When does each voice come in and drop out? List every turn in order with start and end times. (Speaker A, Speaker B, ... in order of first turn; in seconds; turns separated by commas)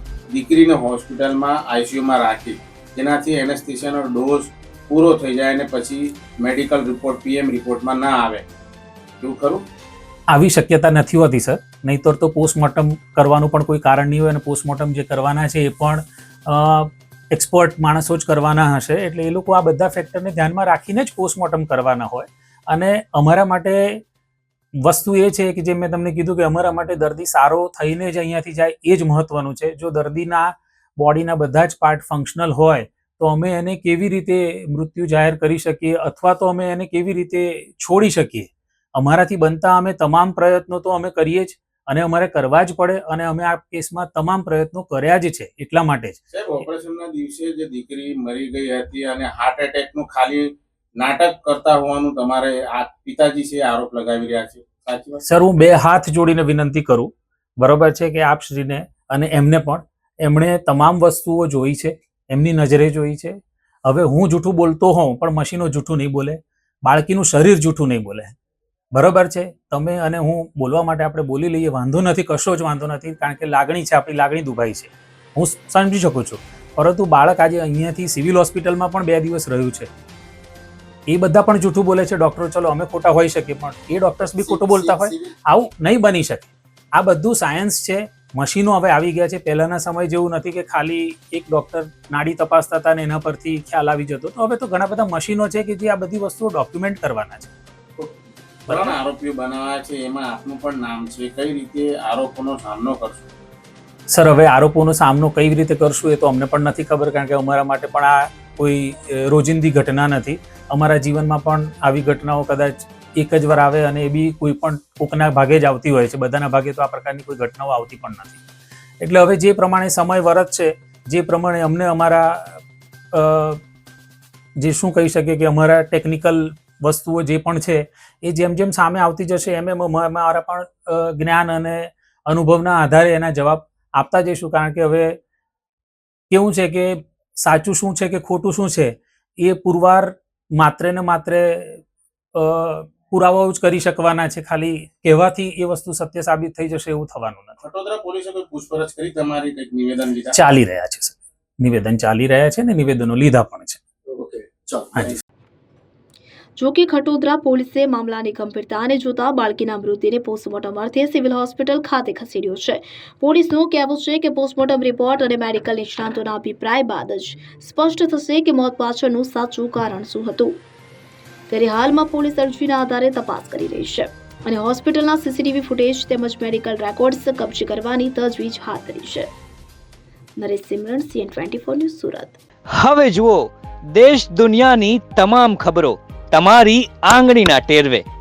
Speaker A: 0.3-8.4, Speaker A: 9.2-9.6, Speaker B: 10.3-24.0, Speaker B: 24.8-46.2, Speaker A: 46.3-55.2, Speaker B: 55.2-68.3, Speaker B: 68.9-79.9, Speaker B: 81.1-97.5, Speaker C: 84.2-85.3, Speaker A: 98.7-103.3, Speaker B: 98.7-98.9, Speaker B: 104.1-118.4, Speaker B: 119.0-123.6, Speaker B: 124.6-135.2, Speaker B: 136.3-141.8, Speaker B: 142.3-147.6, Speaker A: 147.6-150.3, Speaker B: 150.3-153.8, Speaker C: 154.1-155.2, Speaker D: 156.6-170.5, Speaker D: 171.5-179.3, Speaker D: 180.4-182.4, Speaker E: 182.7-188.0